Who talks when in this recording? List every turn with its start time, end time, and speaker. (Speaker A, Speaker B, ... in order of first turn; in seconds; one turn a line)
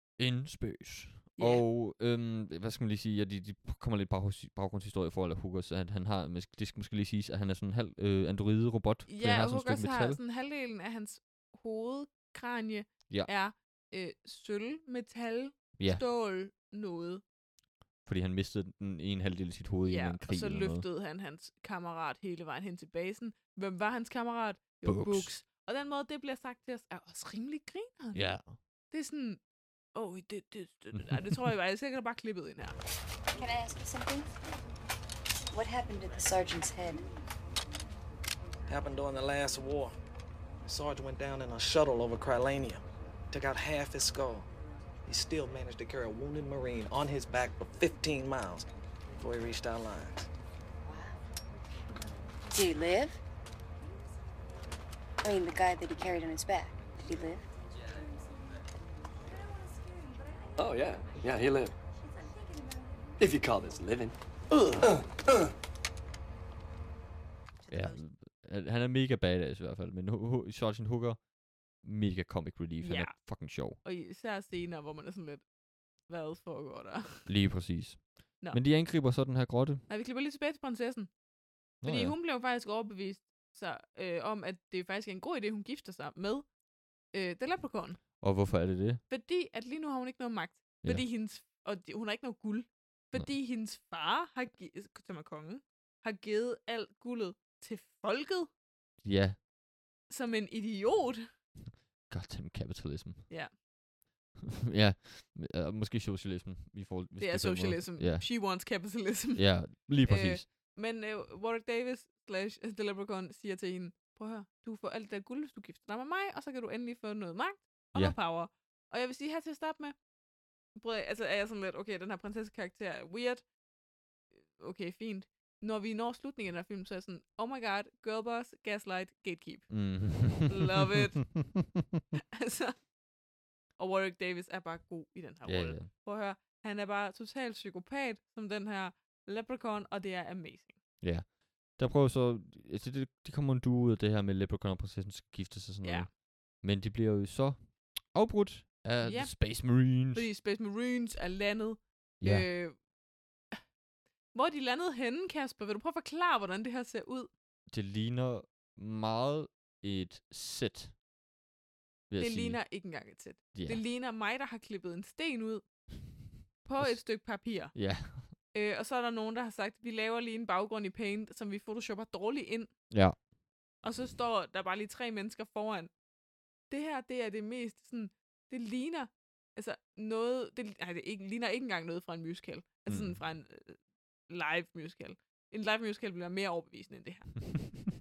Speaker A: 0.2-10.2
Speaker B: 1.4-1.6
Speaker B: 9.1-17.2
Speaker A: 18.0-20.9
Speaker B: 19.9-28.2
Speaker A: 24.8-25.3
Speaker A: 28.1-28.6
Speaker B: 28.9-29.4
Speaker B: 29.9-32.8
Speaker A: 30.9-31.5
Speaker C: 33.3-34.3
Speaker C: 35.5-37.1
Speaker D: 38.7-39.9
Speaker D: 40.6-44.5
Speaker D: 45.0-50.3
Speaker C: 50.8-51.2
Speaker C: 52.5-53.2
Speaker C: 55.2-57.5
Speaker E: 60.6-61.8
Speaker E: 63.2-65.0
Speaker B: 67.7-68.0
Speaker A: 67.7-71.2
Speaker A: 71.8-73.8
Speaker B: 72.8-73.2
Speaker B: 73.8-75.4
Speaker B: 76.1-77.3
Speaker A: 77.2-79.8
Speaker B: 79.9-81.1
Speaker A: 81.8-82.2
Speaker B: 81.8-86.5
Speaker B: 87.1-88.0
Speaker A: 88.2-89.0
Speaker B: 89.1-98.5
Speaker A: 99.0-99.4
Speaker B: 100.1-101.3
Speaker A: 102.1-103.3
Speaker A: 104.7-108.7
Speaker B: 107.2-120.0
Speaker A: 109.3-110.5
Speaker B: 120.8-123.4
Speaker B: 124.3-131.4
Speaker A: 129.7-131.6
Speaker B: 132.4-132.8
Speaker B: 133.8-140.8
Speaker A: 135.4-135.9
Speaker A: 141.0-150.3
Speaker B: 145.8-146.1
Speaker B: 149.0-152.8
Speaker A: 152.2-152.5
Speaker B: 154.3-157.3
Speaker A: 157.7-160.9
Speaker A: 162.1-162.6
Speaker B: 162.2-165.7
Speaker A: 163.5-163.8
Speaker B: 166.6-172.7
Speaker A: 166.8-168.3
Speaker A: 172.9-173.2
Speaker B: 173.8-175.9
Speaker B: 176.7-187.7
Speaker A: 182.9-183.2